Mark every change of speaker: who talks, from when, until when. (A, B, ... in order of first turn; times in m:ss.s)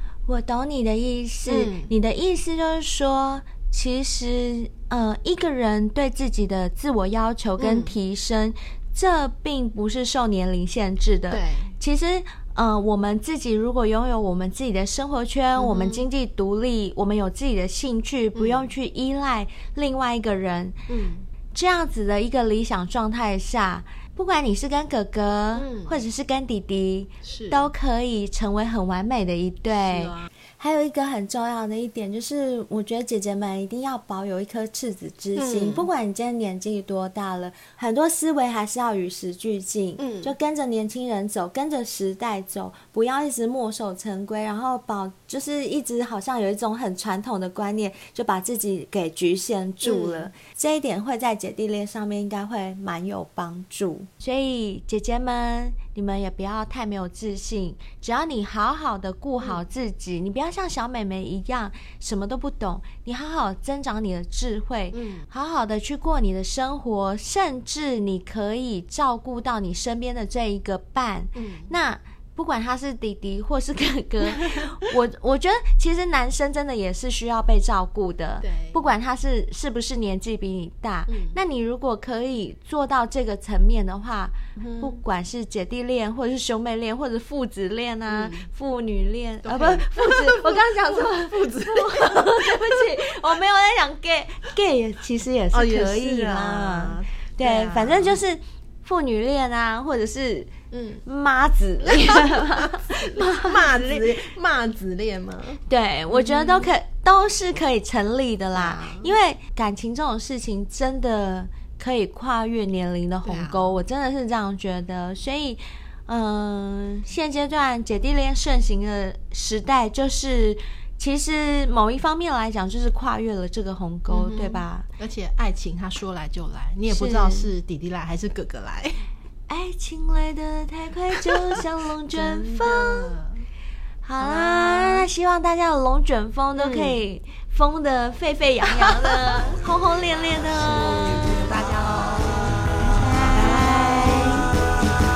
0:00.2-0:20.8 A
0:01.4-0:01.9 B
0:07.6-0:07.9 B
0:11.3-0:11.7 B
0:15.5-0:16.1 B
0:18.3-0:18.7 B
0:20.9-0:21.3 B
0:21.5-1:40.5 A
0:25.5-0:26.0 B
0:27.2-0:27.7 B
0:29.7-0:30.3 B
0:35.3-0:35.9 B
0:40.0-0:40.3 B
0:49.8-0:50.3 B
1:04.9-1:05.3 B
1:11.3-1:11.7 B
1:18.4-1:18.9 B
1:21.1-1:21.4 B
1:24.6-1:25.0 B
1:28.1-1:28.5 B
1:29.4-1:33.1 B
1:35.5-1:38.2 B
1:40.7-1:41.0 B
1:41.0-1:44.0 A
1:41.8-1:46.7 B
1:45.7-2:04.8 A
1:48.5-1:49.2 B
1:53.2-1:53.7 B
2:04.1-2:09.0 B
2:06.9-2:07.5 A
2:09.5-2:13.2 A
2:11.3-2:11.6 B
2:12.1-2:13.4 B
2:14.0-2:24.5 A
2:14.2-2:15.1 B
2:16.6-2:17.0 B
2:18.7-2:19.6 B
2:20.5-2:22.5 B
2:23.2-2:23.6 B